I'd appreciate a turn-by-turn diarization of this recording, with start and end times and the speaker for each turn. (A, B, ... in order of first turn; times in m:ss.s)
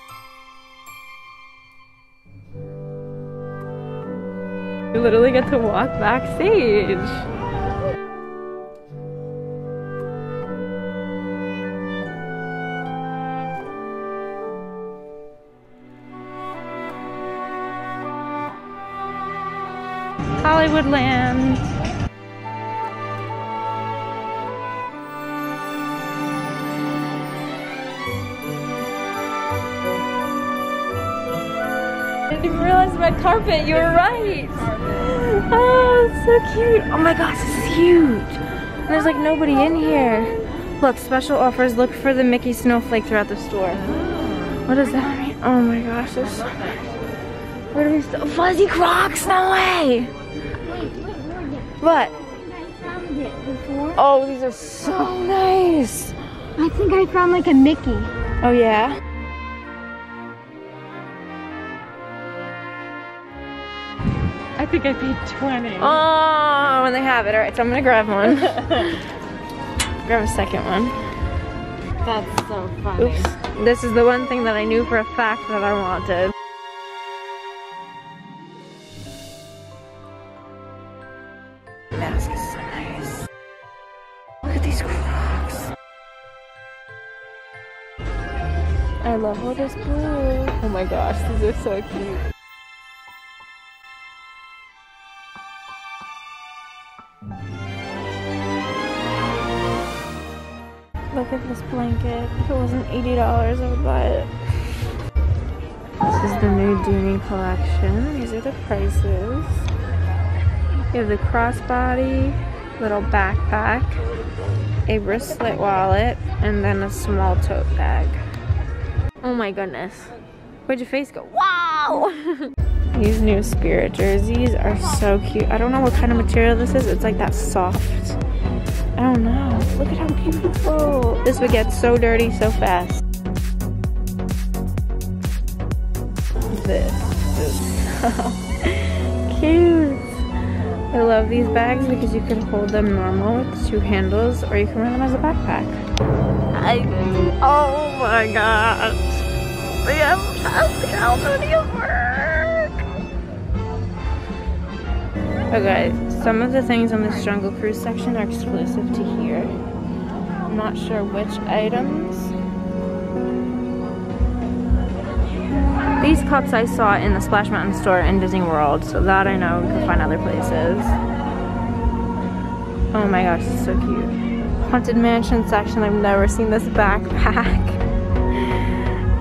0:04.9-0:07.2 A
0:20.4-0:21.7 A
0:32.3-0:43.8 A
0:34.0-0:34.8 B
0:44.1-0:44.6 B
0:44.6-0:46.7 A
0:47.7-0:50.1 A
0:50.7-0:51.7 C
0:51.8-0:52.2 A
0:52.6-0:54.0 C
0:54.0-0:56.2 A
0:56.6-0:58.1 C
0:58.4-0:59.0 A
1:04.6-1:06.0 B
1:05.8-1:09.0 A
1:08.4-1:08.9 B
1:10.0-1:11.0 A
1:12.0-1:13.4 B
1:13.0-1:16.4 A
1:21.9-1:23.3 A
1:24.4-1:25.7 A
1:29.0-1:32.2 A
1:41.1-1:44.3 A
1:46.1-1:49.7 A
1:50.9-1:54.0 A
1:54.9-1:58.2 A
1:59.2-2:00.2 A
2:00.7-2:08.2 A
2:09.0-2:13.0 A
2:16.5-2:20.2 A
2:20.9-2:25.8 A
2:26.5-2:29.2 A
2:29.8-2:32.9 A
2:35.5-2:39.5 A
2:40.5-2:42.4 A
2:46.0-2:51.0 A
2:52.9-2:57.8 A